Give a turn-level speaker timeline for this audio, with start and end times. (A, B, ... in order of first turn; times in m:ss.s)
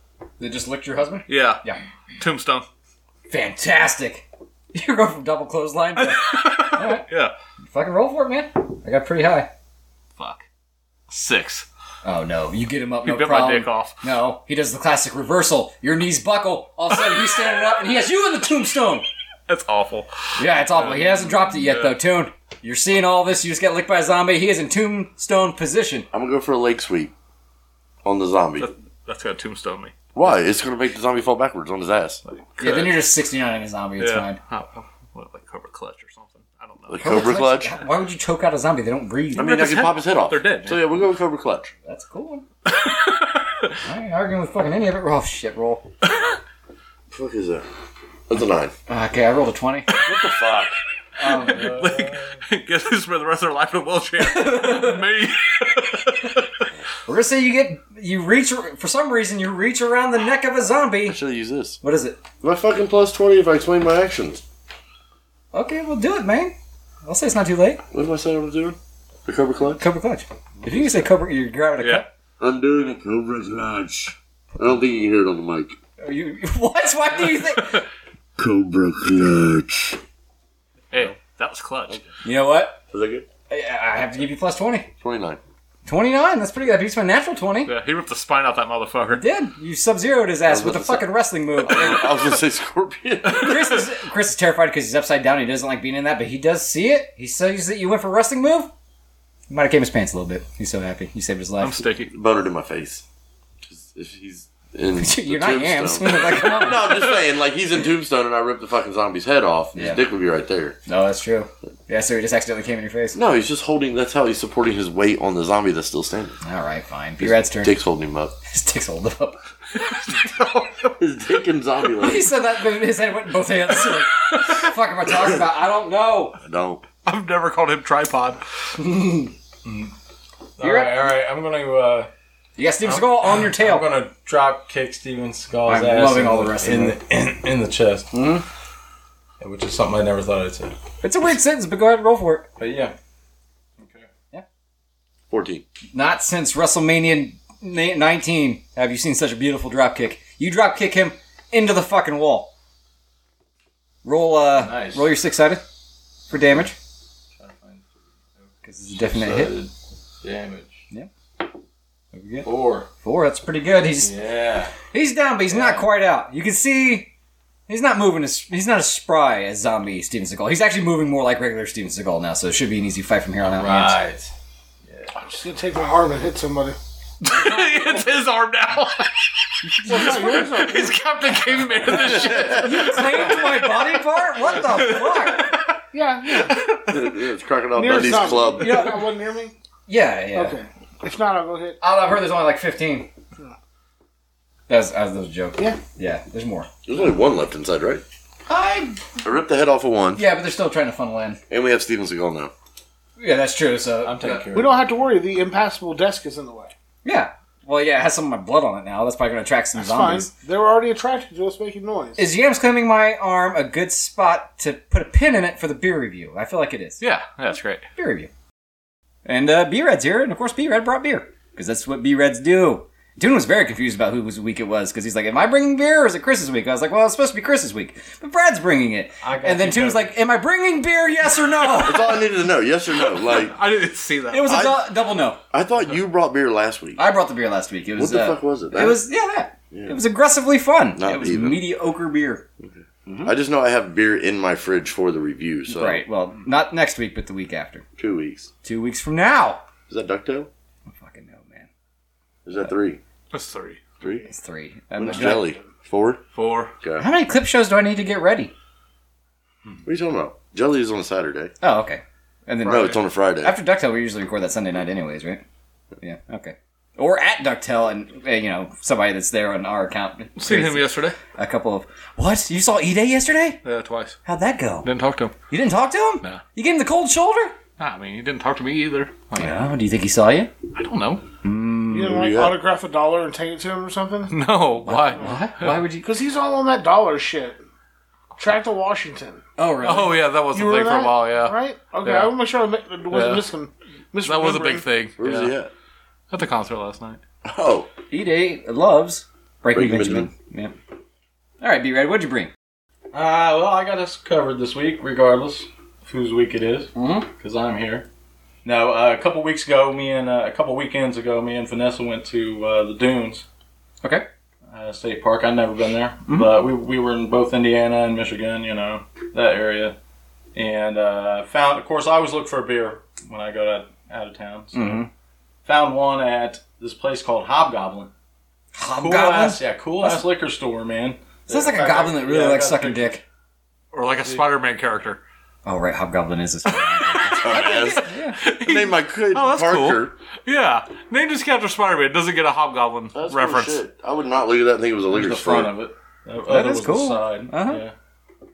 0:00.4-0:01.8 A
0:01.3-0:01.6 B
0:02.2-0:02.6 B
0:03.3-0:07.0 A
0:06.0-0:07.3 B
0:07.6-0:09.5 A
0:10.2-0:10.4 B
0:11.1-0:11.6 B
0:12.0-0:19.0 A
0:13.0-0:14.0 B
0:19.5-0:20.1 B
0:20.4-0:26.1 A
0:20.7-0:21.9 B
0:26.1-0:27.1 C
0:28.0-0:28.7 C
0:28.6-0:29.9 B
0:30.1-0:32.2 C
0:32.2-0:33.0 B
0:32.6-0:34.4 A
0:34.0-0:37.3 B
0:36.9-0:37.8 C
0:37.0-0:39.8 A
0:39.4-0:41.7 C
0:39.4-0:40.8 B
0:41.8-0:42.4 A
0:42.6-0:43.8 B
0:43.8-0:45.9 A
0:47.1-0:47.6 C
0:48.3-0:48.7 C
0:48.9-0:50.0 A
0:50.0-0:50.7 C
0:51.2-0:51.8 A
0:51.3-0:56.5 B
0:51.4-0:52.4 D
0:54.2-0:55.0 A
0:57.0-1:01.2 A
1:01.0-1:01.8 C
1:01.8-1:02.2 A
1:02.4-1:04.4 C
1:05.5-1:07.8 A
1:07.9-1:09.8 C
1:09.8-1:12.0 A
1:10.6-1:11.0 C
1:12.4-1:15.8 C
1:16.0-1:17.8 A
1:17.6-1:17.8 B
1:18.4-1:20.0 C
1:20.9-1:22.0 B
1:22.2-1:22.8 A
1:22.9-1:23.2 C
1:23.5-1:24.9 A
1:25.0-1:25.4 C
1:25.8-1:27.7 A
1:27.6-1:29.2 B
1:29.1-1:32.3 A
1:30.5-1:33.7 C
1:33.3-1:38.7 A
1:39.5-1:41.8 A
1:41.6-1:42.1 B
1:42.1-1:43.0 C
1:43.6-1:50.8 C
1:45.0-1:47.0 A
1:49.7-1:50.0 A
1:50.8-1:53.2 A
1:53.1-1:56.4 C
1:56.4-1:57.8 A
1:57.2-1:58.3 C
1:58.4-1:59.4 A
1:59.8-2:00.9 B
2:01.0-2:02.3 C
2:02.0-2:06.4 A
2:04.0-2:04.7 B
2:06.4-2:06.8 C
2:07.0-2:08.4 B
2:08.8-2:09.3 A
2:09.6-2:09.9 D
2:10.6-2:12.1 D
2:10.6-2:11.1 A
2:12.6-2:13.9 A
2:12.8-2:18.1 D
2:15.6-2:17.0 A
2:18.1-2:18.4 A
2:19.4-2:20.7 D
2:21.0-2:22.5 A
2:22.6-2:22.9 D
2:23.8-2:24.1 D
2:25.3-2:25.6 C
2:25.9-2:32.5 A
2:34.0-2:35.6 A
2:34.5-2:35.1 D
2:36.3-2:36.7 A
2:37.4-2:40.8 D
2:38.6-2:39.6 A
2:42.1-2:44.1 A
2:42.4-2:42.9 D
2:44.0-2:44.7 D
2:44.9-2:47.1 A
2:45.5-2:45.9 D
2:47.7-2:54.0 A
2:53.5-2:54.3 D
2:54.9-2:55.2 D
2:55.2-2:56.8 E
2:57.2-3:03.7 B
2:59.6-3:00.5 A
2:59.9-3:00.9 E
3:01.9-3:02.7 C
3:02.6-3:05.5 A
3:04.4-3:07.0 B
3:05.9-3:06.8 E
3:06.8-3:08.9 C
3:07.7-3:09.5 E
3:08.6-3:09.1 A
3:09.9-3:10.6 A
3:10.3-3:11.8 E
3:11.8-3:13.1 A
3:14.7-3:16.7 A
3:16.8-3:18.0 C
3:18.5-3:19.1 A
3:19.2-3:20.2 C
3:20.1-3:21.4 A
3:21.5-3:22.5 C
3:23.2-3:24.5 A
3:24.0-3:24.8 D
3:24.5-3:26.7 E
3:27.0-3:30.3 A
3:29.8-3:32.3 E
3:32.2-3:37.0 A
3:37.0-3:37.8 B
3:37.9-3:38.3 A
3:39.2-3:52.1 A
3:49.2-3:50.2 D
3:51.8-3:53.5 C
3:53.2-3:54.6 B
3:54.3-3:55.4 A
3:54.5-3:54.9 C
3:55.5-3:57.0 C
3:57.0-4:02.4 A
3:58.0-3:59.0 C
3:59.7-4:00.0 C
4:01.0-4:01.6 C
4:02.6-4:06.0 C
4:03.0-4:03.3 A
4:05.7-4:07.8 A
4:08.0-4:08.5 C
4:08.6-4:09.6 A
4:09.9-4:10.5 C
4:10.9-4:11.7 A
4:12.4-4:13.0 C
4:13.3-4:13.8 B
4:14.0-4:14.3 C
4:14.2-4:15.5 A
4:15.0-4:16.2 C
4:16.3-4:16.7 B
4:16.8-4:17.1 C
4:17.0-4:18.5 A
4:19.8-4:21.5 C
4:21.6-4:25.4 A
4:22.6-4:23.6 C
4:26.0-4:33.6 A
4:30.4-4:31.2 B
4:33.6-4:34.2 B
4:34.2-4:34.9 A
4:34.8-4:35.3 B
4:35.5-4:37.6 A
4:37.8-4:39.6 B
4:39.3-4:40.5 A
4:40.7-4:41.2 B
4:41.4-4:42.2 A
4:41.9-4:44.4 E
4:42.1-4:42.6 C
4:44.3-4:45.8 B
4:44.8-4:46.0 A
4:46.0-4:47.6 E
4:48.4-4:49.4 E
4:49.6-4:50.2 A
4:49.8-4:52.3 B
4:50.5-4:54.8 E
4:53.1-4:53.4 B
4:54.2-4:55.5 B
4:55.2-4:55.7 C
4:56.3-4:57.2 B
4:57.4-4:57.9 C
4:58.1-5:00.7 A
4:59.7-5:00.3 C
5:01.6-5:02.5 A
5:03.1-5:08.1 D
5:06.9-5:07.3 A
5:08.6-5:13.4 D
5:14.7-5:20.0 D
5:20.5-5:25.0 D
5:24.7-5:25.1 A
5:25.6-5:28.1 D
5:28.8-5:30.2 A
5:29.0-5:33.2 D
5:31.5-5:33.2 A
5:33.9-5:35.2 B
5:35.6-5:38.4 A
5:36.7-5:43.8 B
5:37.4-5:40.1 C
5:43.1-5:45.8 C
5:45.1-5:47.9 D
5:46.5-5:47.8 A